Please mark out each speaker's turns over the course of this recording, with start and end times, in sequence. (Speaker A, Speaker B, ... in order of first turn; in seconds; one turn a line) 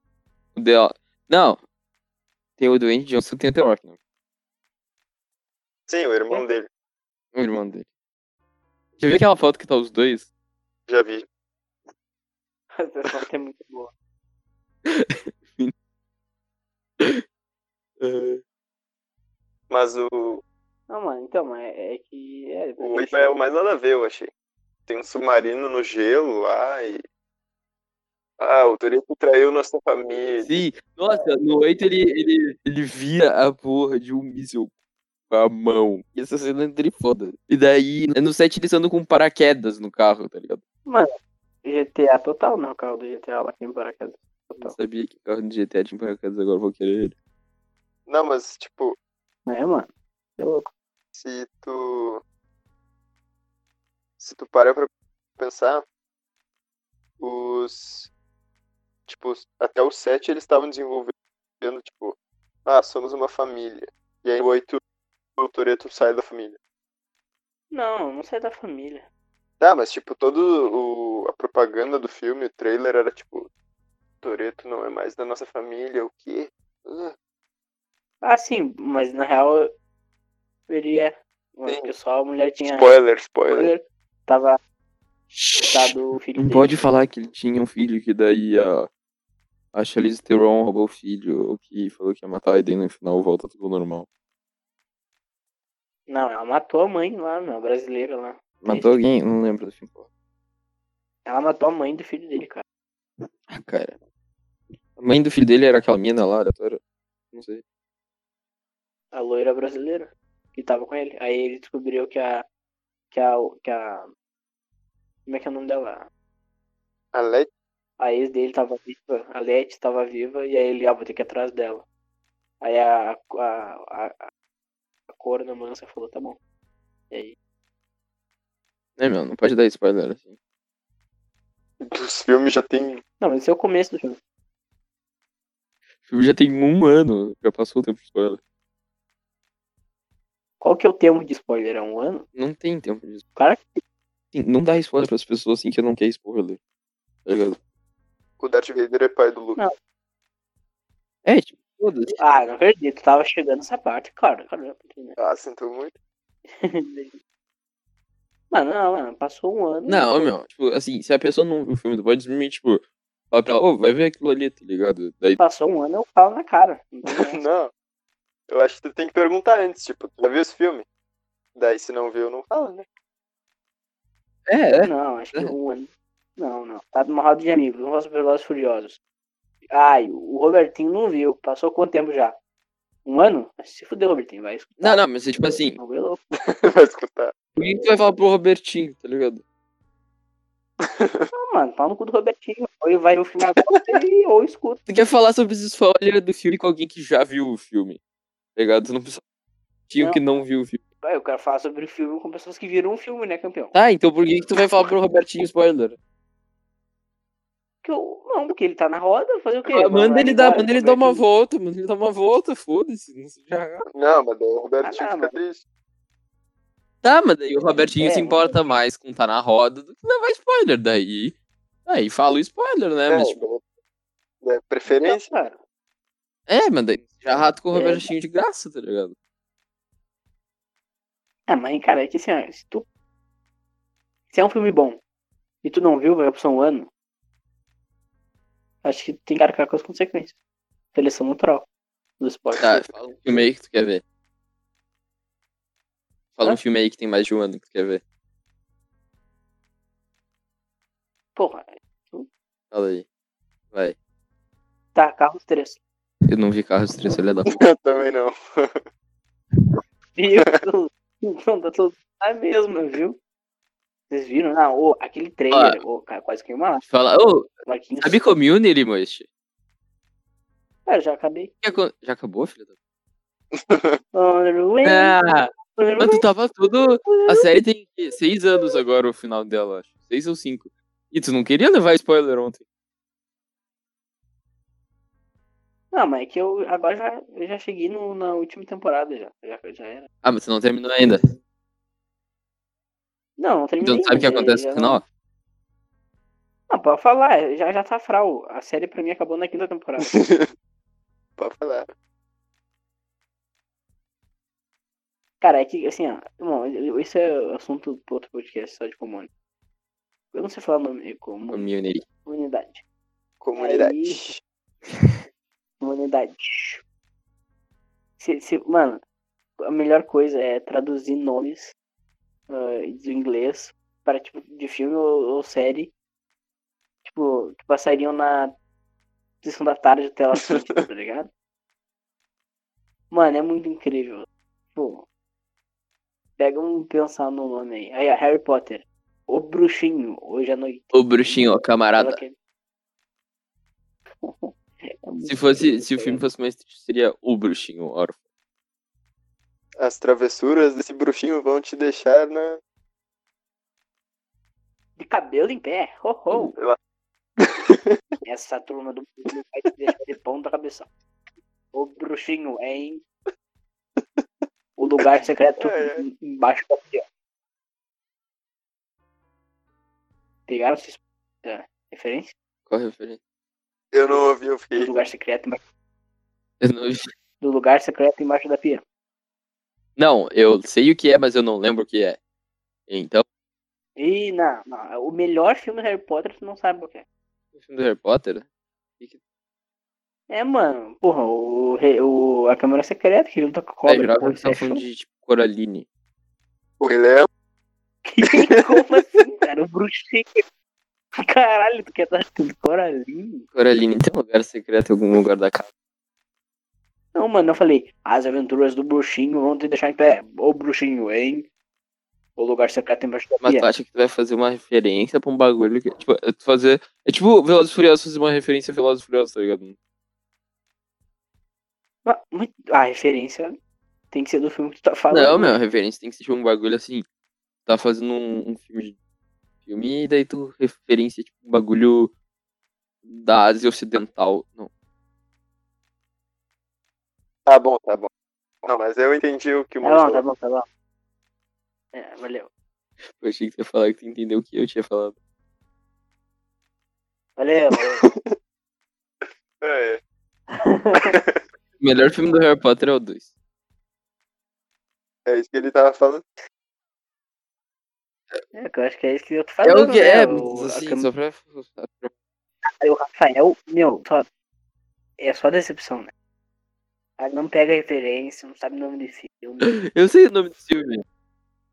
Speaker A: 0.6-1.6
Speaker A: 2.6-4.0
Speaker B: 5.9-6.7
Speaker A: 7.3-7.9
Speaker A: 9.0-10.3
Speaker B: 10.9-11.2
Speaker C: 12.7-13.9
Speaker A: 14.9-15.7
Speaker A: 18.0-18.4
Speaker B: 19.7-20.4
Speaker C: 20.9-23.3
Speaker B: 22.8-24.3
Speaker B: 24.9-27.0
Speaker B: 28.4-30.6
Speaker A: 30.4-34.7
Speaker A: 35.3-40.6
Speaker C: 40.9-41.1
Speaker C: 41.6-44.8
Speaker A: 44.6-47.1
Speaker B: 48.1-49.0
Speaker C: 49.5-50.7
Speaker B: 51.1-52.2
Speaker B: 54.2-55.9
Speaker B: 57.2-58.1
Speaker B: 59.1-64.8
Speaker B: 65.4-66.6
Speaker C: 67.7-69.0
Speaker B: 69.6-73.5
Speaker B: 74.2-77.1
Speaker C: 78.2-79.7
Speaker C: 80.7-82.9
Speaker B: 81.7-81.9
Speaker B: 82.7-83.7
Speaker C: 83.5-84.6
Speaker A: 85.3-88.9
Speaker C: 85.6-86.8
Speaker A: 89.7-94.0
Speaker C: 96.1-99.0
Speaker A: 98.6-100.0
Speaker C: 101.3-102.6
Speaker A: 103.5-104.0
Speaker A: 105.0-106.8
Speaker A: 107.3-107.6
Speaker C: 109.1-112.5
Speaker C: 113.1-114.1
Speaker C: 115.3-116.1
Speaker B: 117.1-117.5
Speaker C: 118.0-121.8
Speaker C: 122.6-124.3
Speaker C: 125.1-126.4
Speaker A: 129.0-130.4
Speaker B: 131.8-133.0
Speaker C: 133.2-134.2
Speaker A: 136.1-138.4
Speaker C: 140.6-142.2
Speaker A: 142.3-143.2
Speaker C: 143.4-143.8
Speaker A: 144.3-146.6
Speaker A: 147.3-147.6
Speaker B: 148.4-149.6
Speaker A: 151.2-152.2
Speaker C: 152.2-155.2
Speaker B: 155.2-155.9
Speaker C: 156.5-157.2
Speaker C: 158.5-160.3
Speaker A: 159.9-165.4
Speaker C: 165.4-167.4
Speaker B: 167.1-167.7
Speaker B: 168.5-170.9
Speaker B: 171.6-172.9
Speaker A: 174.5-175.5
Speaker C: 174.8-179.0
Speaker C: 179.7-182.4
Speaker C: 183.1-185.0
Speaker A: 184.8-185.8
Speaker C: 185.8-186.2
Speaker B: 186.4-187.3
Speaker A: 187.6-189.4
Speaker B: 190.8-191.3
Speaker C: 191.3-194.8
Speaker B: 193.7-194.0
Speaker A: 194.9-198.0
Speaker A: 198.6-199.2
Speaker A: 199.9-200.8
Speaker C: 200.0-200.4
Speaker C: 201.0-203.7
Speaker A: 203.7-206.0
Speaker C: 207.8-211.2
Speaker A: 209.7-213.9
Speaker B: 213.9-215.6
Speaker C: 214.8-215.3
Speaker A: 217.0-223.4
Speaker C: 218.0-218.8
Speaker B: 223.1-223.6
Speaker B: 224.4-225.3
Speaker C: 224.9-225.6
Speaker A: 226.5-229.1
Speaker C: 227.7-228.1
Speaker C: 231.5-232.8
Speaker C: 234.3-235.0
Speaker C: 235.6-236.9
Speaker C: 238.8-240.4
Speaker C: 240.9-241.7
Speaker C: 242.2-243.0
Speaker A: 242.6-244.0
Speaker A: 246.4-248.0
Speaker C: 251.4-252.3
Speaker A: 252.7-253.1
Speaker C: 254.9-255.8
Speaker A: 256.3-257.6
Speaker B: 257.6-258.8
Speaker C: 260.2-263.2
Speaker C: 264.1-266.8
Speaker A: 265.5-265.8
Speaker A: 266.9-269.3
Speaker C: 267.7-268.2
Speaker C: 270.9-271.5
Speaker A: 271.6-272.7
Speaker B: 273.5-274.0
Speaker C: 274.1-275.2
Speaker A: 274.8-282.6
Speaker C: 275.7-276.2
Speaker C: 277.1-277.5
Speaker C: 285.9-290.1
Speaker A: 290.2-291.3
Speaker C: 293.4-295.0
Speaker A: 293.8-295.0
Speaker C: 296.7-300.1
Speaker B: 300.1-300.5
Speaker B: 301.4-301.9
Speaker C: 305.4-309.3
Speaker C: 310.3-311.7
Speaker A: 311.5-312.1
Speaker C: 312.2-312.8
Speaker B: 313.4-314.4
Speaker C: 313.6-314.2
Speaker C: 315.8-316.8
Speaker C: 318.2-319.0
Speaker C: 319.6-321.7
Speaker C: 322.5-325.9
Speaker C: 327.1-328.5
Speaker C: 329.4-331.3
Speaker C: 333.1-335.1
Speaker C: 336.4-341.4
Speaker A: 340.9-342.2
Speaker C: 342.0-342.3
Speaker C: 344.2-346.2
Speaker A: 345.3-348.2
Speaker B: 349.8-352.6
Speaker C: 355.0-356.6
Speaker B: 356.3-356.8
Speaker B: 357.4-358.0
Speaker C: 358.2-360.9
Speaker C: 361.7-363.0
Speaker B: 364.0-364.4
Speaker C: 364.8-367.0
Speaker B: 365.0-366.0
Speaker C: 370.5-372.3
Speaker A: 372.7-373.2
Speaker B: 373.9-374.9
Speaker C: 374.7-375.6
Speaker A: 376.6-377.1
Speaker C: 377.4-378.8
Speaker A: 380.0-382.2
Speaker A: 382.9-383.3
Speaker C: 384.0-387.1
Speaker A: 387.6-388.4
Speaker C: 390.3-394.8
Speaker A: 393.9-395.9
Speaker B: 396.8-397.3
Speaker C: 398.1-400.4
Speaker B: 398.2-399.1
Speaker C: 401.2-403.4
Speaker A: 403.6-405.7
Speaker C: 407.1-411.5
Speaker C: 412.4-413.7
Speaker A: 413.4-419.8
Speaker C: 422.1-423.6
Speaker C: 424.1-425.6
Speaker A: 425.1-427.1
Speaker A: 427.7-428.9
Speaker A: 429.7-432.1
Speaker A: 433.1-434.7
Speaker B: 437.5-438.1
Speaker B: 438.6-440.2
Speaker C: 439.8-440.7
Speaker C: 441.9-442.5
Speaker A: 443.1-445.1
Speaker C: 447.4-448.1
Speaker B: 447.8-448.3
Speaker B: 449.2-450.0
Speaker C: 450.5-451.1
Speaker B: 451.0-451.4
Speaker A: 451.8-453.3
Speaker B: 455.3-456.3
Speaker C: 458.5-461.1
Speaker A: 459.6-462.1
Speaker C: 462.6-464.3
Speaker C: 465.2-466.1
Speaker C: 467.2-469.7
Speaker A: 469.6-471.0